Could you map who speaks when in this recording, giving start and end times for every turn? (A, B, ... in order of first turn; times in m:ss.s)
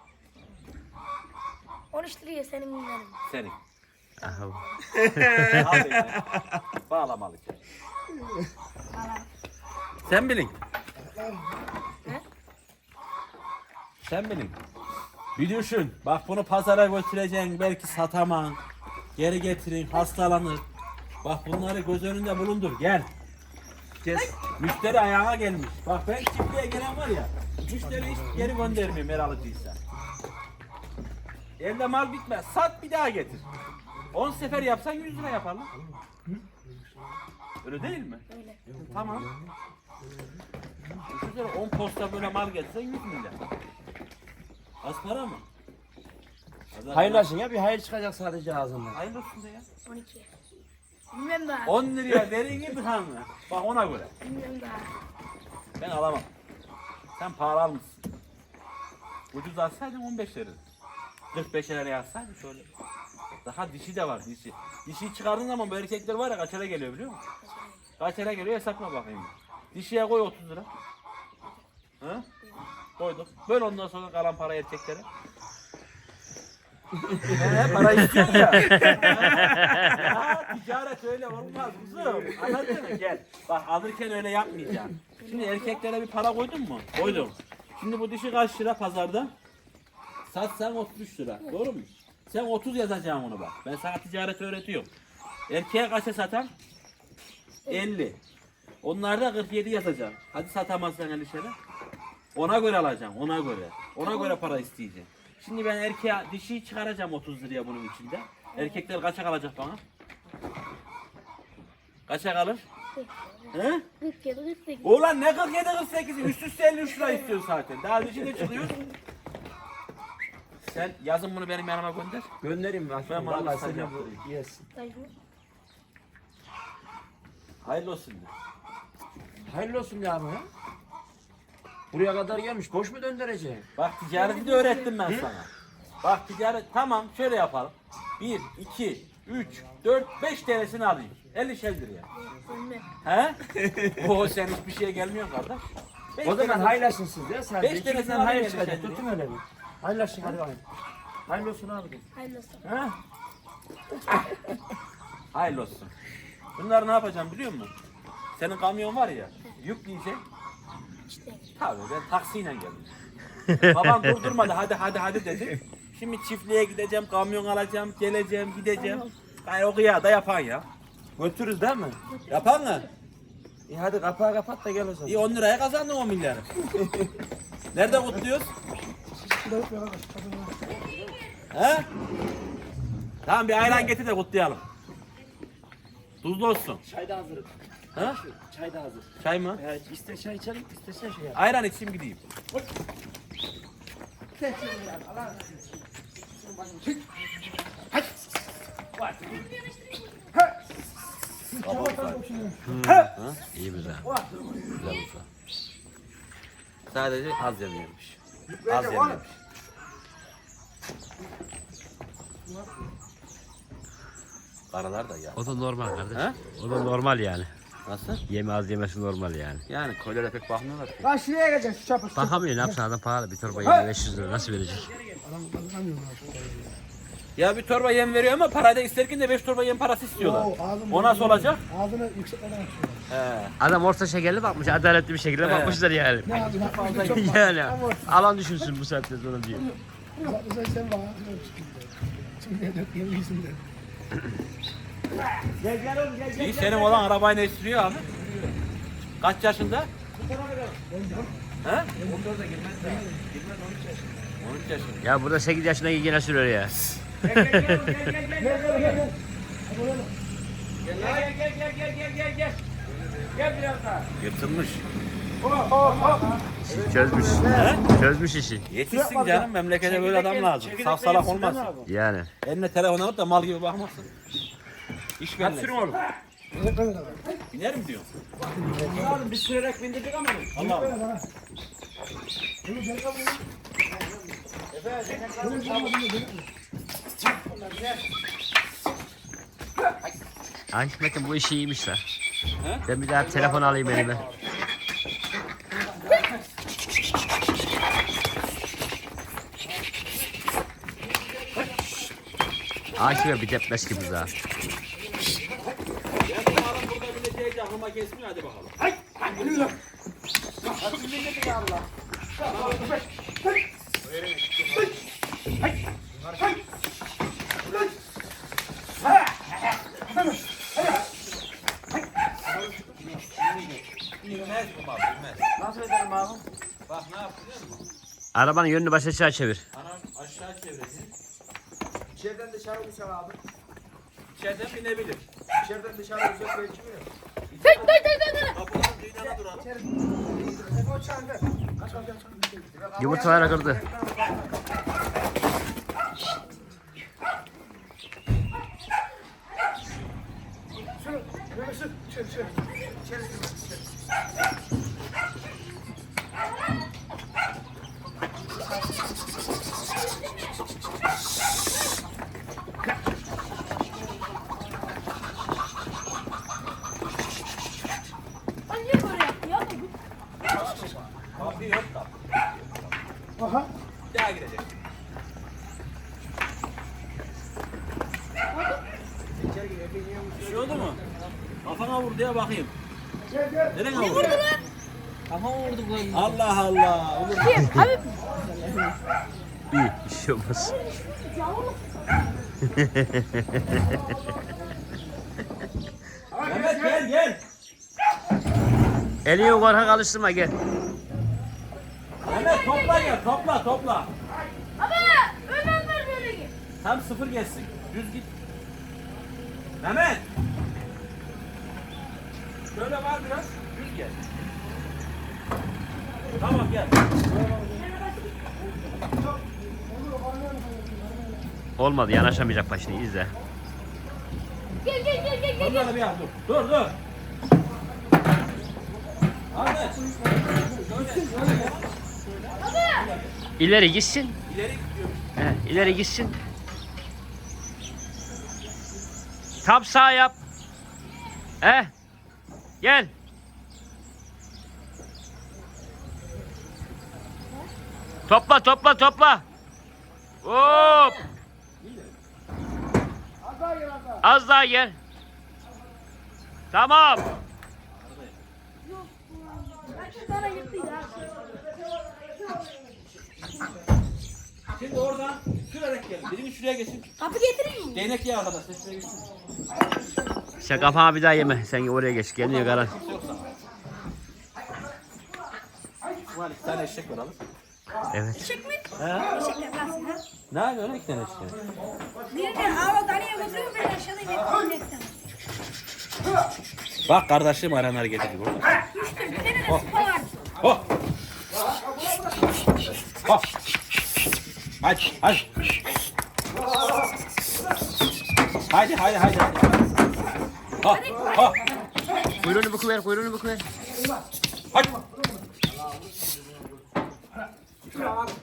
0:01.9-0:03.2 A
0:03.2-0:03.6 B
0:04.2-0:04.8 A
0:04.2-0:05.8 C
0:04.9-0:06.6 D
0:05.6-0:07.6 B
0:08.9-0:09.2 A
0:10.0-0:10.6 B
0:14.0-0:14.6 B
0:15.4-0:18.6 B
0:19.2-0:20.6 B
0:21.2-0:23.1 B
0:24.0-0:24.3 D
0:24.6-0:29.8 B
0:31.6-0:33.4 B
0:34.1-0:35.7 B
0:37.6-0:38.2 B
0:38.3-0:38.6 A
0:38.7-0:39.5 D
0:38.8-0:39.3 B
0:41.1-0:43.4 B
0:44.8-0:45.4 B
0:46.7-0:47.3 B
0:46.9-0:49.0 D
0:48.9-0:49.6 B
0:49.8-0:50.3 A
0:51.1-0:51.8 A
0:51.6-0:54.1 B
0:54.2-0:54.9 A
0:55.8-0:56.3 B
0:57.2-0:58.0 B
0:59.3-1:00.6 B
1:01.3-1:02.7 B
1:03.4-1:07.2 B
1:07.4-1:07.8 A
1:08.0-1:10.7 B
1:12.0-1:12.2 B
1:13.0-1:15.0 B
1:17.0-1:19.3 D
1:17.3-1:29.3 B
1:18.6-1:20.1 C
1:25.2-1:25.8 A
1:27.0-1:27.3 A
1:30.3-1:34.9 B
1:35.5-1:36.5 B
1:37.7-1:38.2 B
1:38.8-1:41.6 B
1:42.3-1:49.8 B
1:44.0-1:44.6 A
1:48.5-1:48.8 A
1:52.1-1:52.6 B
1:52.9-1:54.9 A
1:53.5-1:53.8 B
1:54.8-1:58.8 B
1:56.9-1:57.3 A
2:00.6-2:02.3 B
2:02.4-2:04.6 D
2:03.1-2:04.2 B
2:04.7-2:05.1 A
2:07.6-2:08.3 B
2:09.5-2:10.5 D
2:11.9-2:13.6 D
2:13.8-2:15.5 B
2:14.1-2:15.1 A
2:16.0-2:22.1 B
2:22.2-2:22.9 A
2:23.0-2:25.6 B
2:23.5-2:24.1 D
2:26.1-2:27.0 B
2:26.2-2:30.6 D
2:27.6-2:29.0 B
2:31.3-2:32.0 D
2:32.1-2:32.6 A
2:32.6-2:33.0 D
2:35.3-2:35.9 B
2:36.6-2:37.7 B
2:38.4-2:40.2 B
2:41.1-2:41.5 A
2:41.6-2:42.9 B
2:43.5-2:44.2 C
2:43.6-2:50.6 B
2:48.7-2:49.1 A
2:51.2-2:52.0 D
2:52.1-2:52.9 A
2:52.3-2:52.8 B
2:53.7-2:55.2 D
2:55.0-2:56.5 B
2:57.7-2:58.5 B
2:59.4-3:00.6 E
3:00.7-3:01.3 A
3:00.8-3:01.1 D
3:01.5-3:01.9 B
3:03.2-3:04.6 B
3:06.2-3:06.8 B
3:06.8-3:11.4 D
3:09.2-3:09.6 B
3:11.3-3:12.2 B
3:14.4-3:15.4 D
3:16.6-3:17.0 D
3:21.6-3:23.4 B
3:21.6-3:22.5 E
3:22.6-3:24.1 C
3:24.0-3:25.0 D
3:24.8-3:25.2 B
3:26.9-3:29.4 B
3:28.7-3:29.1 E
3:34.7-3:35.4 B
3:35.4-3:37.5 C
3:37.8-3:38.2 B
3:38.3-3:39.6 C
3:39.7-3:41.1 B
3:41.0-3:42.4 E
3:42.1-3:44.9 C
3:44.2-3:45.2 D
3:45.2-3:46.7 E
3:47.4-3:51.6 B
3:50.2-3:53.0 E
3:53.1-3:53.6 B
3:53.6-3:59.7 C
3:55.4-3:55.8 B
3:56.4-3:57.8 E
3:56.5-3:57.2 D
4:00.2-4:03.6 E
4:05.6-4:07.1 D
4:06.3-4:08.1 B
4:09.2-4:09.9 B
4:10.1-4:11.2 D
4:11.0-4:11.3 E
4:11.6-4:11.9 B
4:12.0-4:14.3 D
4:14.4-4:15.1 B
4:15.0-4:18.1 C
4:17.2-4:19.1 D
4:18.4-4:19.1 E
4:19.7-4:20.1 E
4:20.8-4:24.1 D
4:24.2-4:24.8 B
4:25.4-4:27.7 D
4:25.8-4:26.2 E
4:26.7-4:28.6 C
4:27.5-4:27.8 B
4:28.7-4:31.7 B
4:29.1-4:29.4 E
4:29.8-4:31.9 D
4:31.8-4:32.3 C
4:32.4-4:34.1 B
4:35.2-4:36.0 B
4:35.4-4:36.0 D
4:36.5-4:37.2 E
4:37.5-4:38.1 B
4:38.6-4:39.3 D
4:38.9-4:41.0 B
4:40.6-4:41.2 E
4:42.7-4:43.4 E
4:44.7-4:45.8 B
4:45.1-4:46.0 D
4:45.6-4:46.4 E
4:50.7-4:52.0 C
4:52.6-4:52.8 B
4:52.9-4:54.2 C
5:03.0-5:04.3 C
5:06.2-5:08.8 B
5:11.0-5:11.7 D
5:11.1-5:11.4 E
5:12.4-5:12.9 B
5:22.7-5:23.8 D
5:24.2-5:25.5 B
5:25.6-5:26.4 D
5:26.9-5:27.8 B
5:28.3-5:29.6 C
5:29.7-5:31.1 B
5:32.2-5:33.3 D
5:34.3-5:35.2 B
5:35.6-5:37.0 D
5:37.5-5:38.0 B
5:37.6-5:38.6 A
5:38.5-5:39.7 B
5:40.5-5:41.4 E
5:41.8-5:42.1 B
5:43.0-5:43.8 C
6:00.1-6:00.6 A
6:08.7-6:09.9 A
6:10.5-6:12.9 B
6:13.4-6:13.7 E
6:14.1-6:14.8 B
6:18.5-6:18.8 A
6:19.4-6:21.1 D
6:20.4-6:21.0 B
6:21.6-6:22.7 B
6:23.3-6:23.6 E
6:23.7-6:24.5 B
6:23.9-6:24.6 A
6:25.3-6:26.2 D
6:25.3-6:26.4 C
6:26.1-6:27.8 B
6:27.3-6:28.3 A
6:29.7-6:30.8 C
6:30.7-6:32.0 A
6:32.6-6:34.0 C
6:36.4-6:37.4 B
6:39.2-6:40.6 C
6:42.2-6:44.1 B
6:42.3-6:43.2 A
6:44.8-6:46.5 A
6:46.8-6:48.3 B
6:49.8-6:50.3 B
6:52.7-6:54.2 B
6:56.4-6:57.0 B
6:57.6-6:58.7 A
7:01.8-7:03.3 C
7:04.8-7:06.0 A
7:05.5-7:07.0 B
7:09.5-7:10.1 B
7:10.6-7:13.4 B
7:12.6-7:13.1 A
7:13.6-7:14.4 C
7:14.4-7:15.3 B
7:15.4-7:16.4 C
7:19.6-7:20.4 C
7:21.6-7:21.9 C
7:22.8-7:23.1 C
7:28.3-7:29.4 C
7:30.4-7:31.2 C
7:31.8-7:32.1 B
7:34.2-7:35.0 C
7:36.7-7:37.3 C
7:37.9-7:38.4 B
7:39.5-7:41.4 A
7:44.7-7:47.1 B
7:47.2-7:48.1 A
7:47.9-7:49.2 B
7:50.6-7:52.9 C
7:52.4-7:53.5 B
7:56.3-7:57.4 B
7:58.1-7:58.4 C
7:58.3-8:00.2 A
7:59.0-7:59.3 B
8:00.5-8:01.6 B
8:02.3-8:05.1 A
8:07.0-8:08.8 B
8:08.8-8:10.3 A
8:14.8-8:15.5 B
8:18.7-8:19.7 B
8:20.8-8:21.6 B
8:20.8-8:21.7 A
8:22.4-8:23.7 C
8:24.7-8:25.0 B